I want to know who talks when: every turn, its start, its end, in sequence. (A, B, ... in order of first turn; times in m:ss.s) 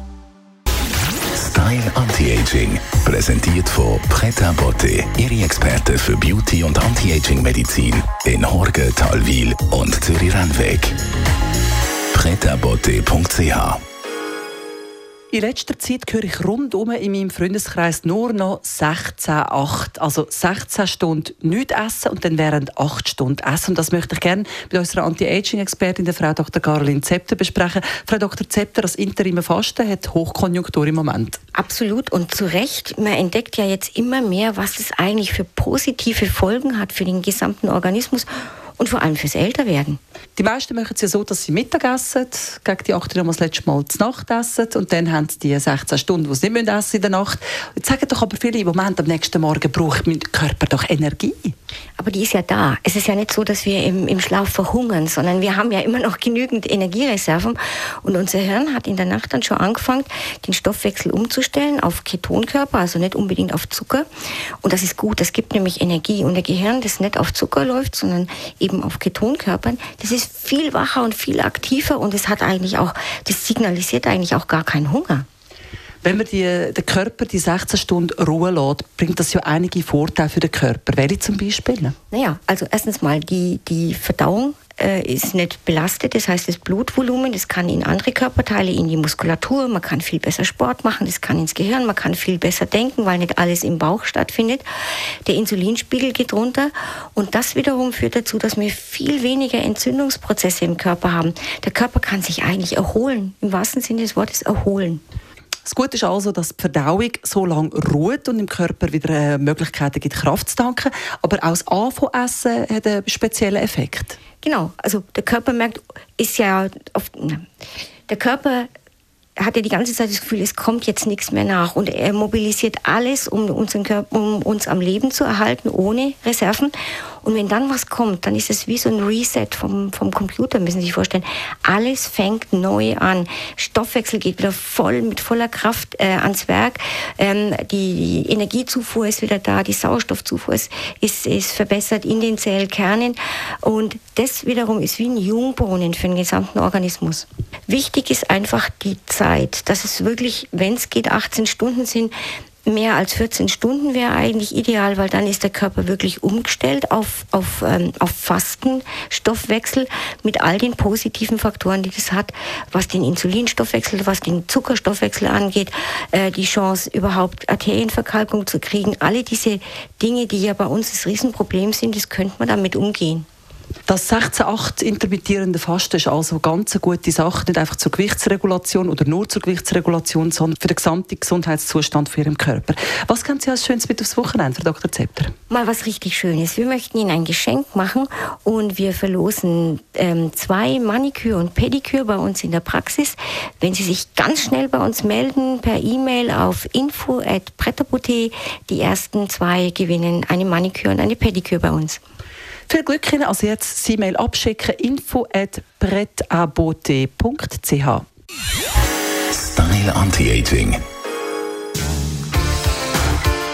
0:01.3-0:11.0 A
0:12.1-0:13.8 A
0:15.3-0:31.4 B
0:31.5-0:40.0 C
0:40.4-0:51.5 B
0:52.0-1:04.0 C
1:04.6-1:15.2 C
1:16.0-1:22.0 B
1:22.1-1:34.6 C
1:35.2-1:45.0 C
1:45.6-1:54.2 B
1:54.4-1:57.4 C
1:58.1-1:58.7 C
1:59.4-2:32.1 C
2:32.6-2:53.2 C
2:53.9-3:05.3 B
3:05.5-3:22.0 C
3:22.7-3:28.0 B
3:29.3-3:30.8 A